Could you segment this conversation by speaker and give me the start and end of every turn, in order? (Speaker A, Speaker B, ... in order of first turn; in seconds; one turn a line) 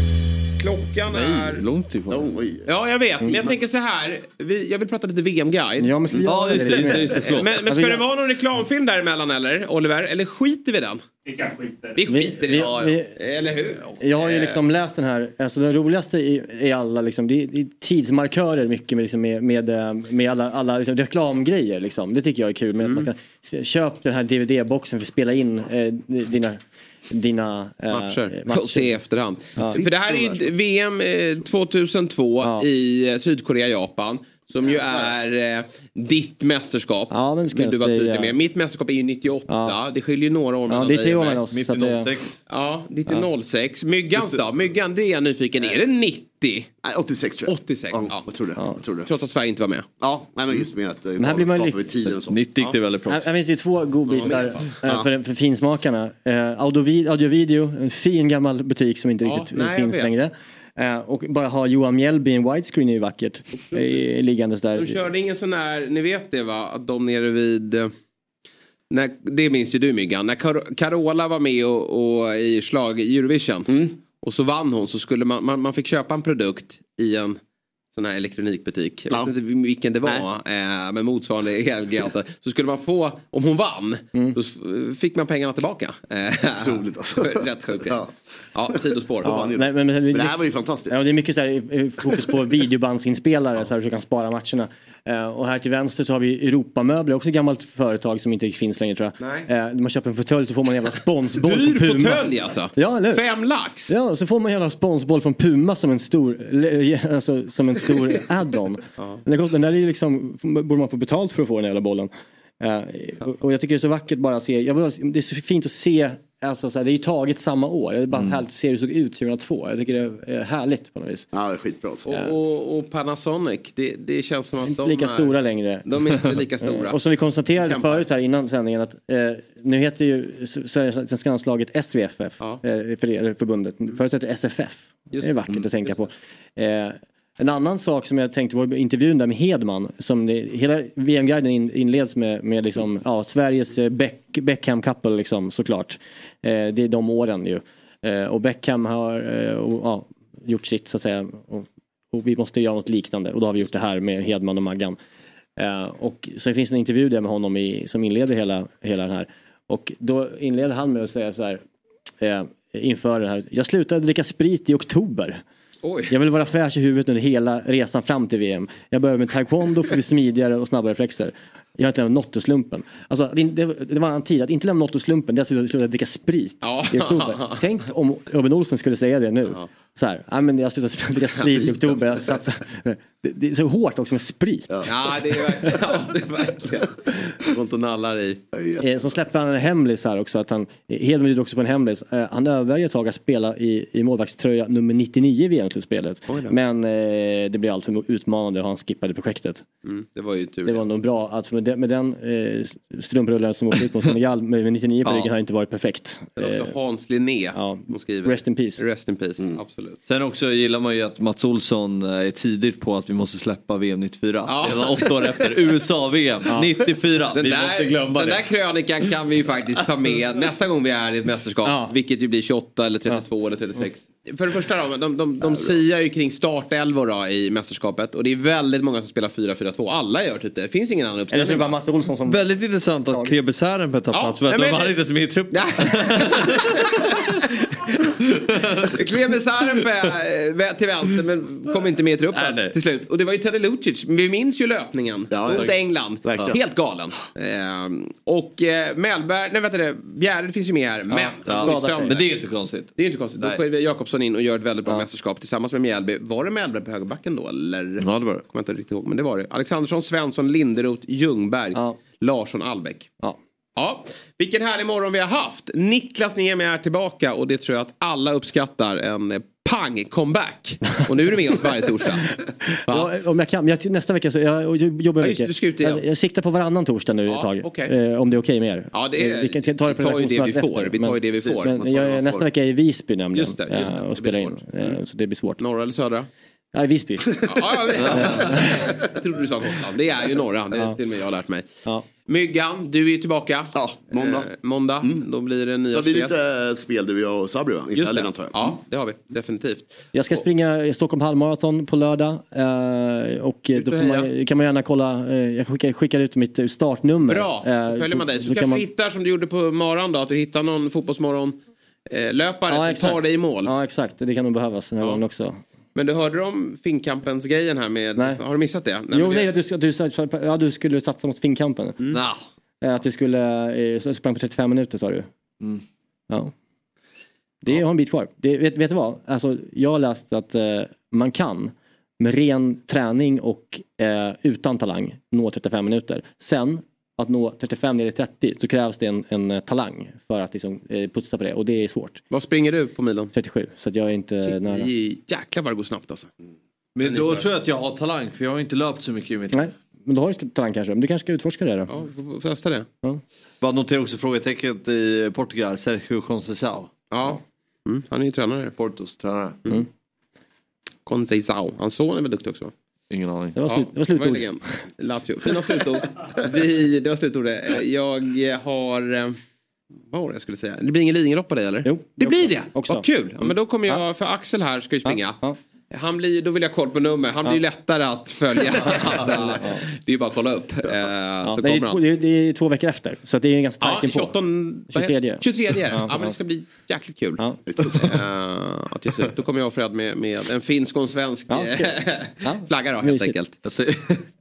Speaker A: 0.6-1.6
Speaker B: 1.1-2.3
Speaker C: 2.1-2.7
Speaker A: 2.7-11.0
Speaker D: 5.8-8.0
Speaker B: 6.2-7.5
Speaker A: 11.9-14.6
Speaker D: 12.1-13.2
Speaker D: 14.0-29.0
Speaker A: 22.8-23.1
Speaker A: 27.9-41.4
Speaker D: 29.6-29.8
Speaker C: 29.7-30.4
Speaker D: 37.1-38.4
Speaker D: 39.5-39.8
Speaker D: 40.7-42.1
Speaker B: 41.5-42.4
Speaker A: 42.5-46.7
Speaker C: 46.8-49.1
Speaker A: 47.5-48.3
Speaker A: 49.1-49.9
Speaker C: 50.0-52.5
Speaker D: 51.2-51.8
Speaker B: 52.1-53.2
Speaker D: 53.1-65.0
Speaker A: 54.1-55.0
Speaker A: 59.2-60.1
Speaker A: 64.8-67.9
Speaker A: 68.9-77.4
Speaker C: 73.7-74.0
Speaker A: 77.9-88.0
Speaker C: 86.5-88.1
Speaker A: 88.5-89.4
Speaker C: 88.8-91.0
Speaker D: 89.2-103.2
Speaker A: 99.2-99.5
Speaker A: 101.4-103.9
Speaker D: 103.9-121.3
Speaker C: 121.3-122.1
Speaker A: 122.0-125.3
Speaker D: 122.1-122.3
Speaker D: 124.6-155.0
Speaker A: 125.8-127.0
Speaker A: 127.5-128.0
Speaker D: 155.6-161.6
Speaker D: 162.2-165.4
Speaker A: 165.8-166.1
Speaker D: 166.1-184.9
Speaker A: 176.6-177.6
Speaker C: 184.7-184.9
Speaker A: 184.8-188.4
Speaker C: 188.5-188.9
Speaker D: 188.8-199.6
Speaker A: 196.3-196.6
Speaker A: 199.8-200.8
Speaker D: 200.6-206.7
Speaker A: 206.4-210.0
Speaker D: 207.6-208.8
Speaker B: 210.1-218.5
Speaker A: 214.5-215.4
Speaker A: 217.3-231.8
Speaker D: 221.6-221.9
Speaker D: 231.3-233.4
Speaker B: 232.3-237.2
Speaker A: 234.1-235.0
Speaker A: 235.5-236.9
Speaker A: 237.8-238.1
Speaker B: 238.2-239.0
Speaker A: 238.9-252.3
Speaker B: 242.3-242.7
Speaker C: 245.3-246.6
Speaker D: 251.1-252.2
Speaker B: 251.4-253.6
Speaker A: 253.0-263.1
Speaker B: 258.0-258.4
Speaker A: 263.8-272.3
Speaker D: 272.7-285.6
Speaker A: 272.9-273.1
Speaker A: 275.2-276.0
Speaker A: 277.3-277.9
Speaker A: 278.9-281.8
Speaker C: 281.4-282.5
Speaker A: 283.3-285.0
Speaker A: 285.6-286.3
Speaker D: 286.7-287.4
Speaker A: 287.4-291.7
Speaker B: 288.0-288.4
Speaker D: 288.1-288.9
Speaker A: 292.3-296.3
Speaker C: 293.7-294.5
Speaker C: 295.9-298.7
Speaker A: 297.9-300.4
Speaker D: 300.1-308.9
Speaker A: 303.8-304.3
Speaker A: 307.3-313.7
Speaker D: 312.7-315.6
Speaker A: 315.9-319.5
Speaker D: 318.2-318.4
Speaker D: 319.1-322.0
Speaker B: 322.1-322.4
Speaker D: 322.8-325.3
Speaker D: 327.6-342.2
Speaker A: 342.3-343.3
Speaker D: 343.3-344.9
Speaker A: 344.4-346.3
Speaker B: 346.9-349.6
Speaker A: 347.1-347.5
Speaker D: 349.5-352.0
Speaker A: 351.9-352.9
Speaker B: 353.6-356.9
Speaker A: 357.1-358.8
Speaker B: 358.8-359.6
Speaker A: 361.1-362.7
Speaker B: 363.1-363.6
Speaker D: 363.6-364.8
Speaker A: 363.7-369.4
Speaker A: 370.1-382.0
Speaker D: 371.9-374.0
Speaker D: 375.1-375.6
Speaker D: 379.6-379.8
Speaker D: 381.4-384.4
Speaker A: 383.8-393.6
Speaker D: 384.9-386.3
Speaker C: 387.7-388.1
Speaker D: 391.5-393.4
Speaker B: 393.6-394.3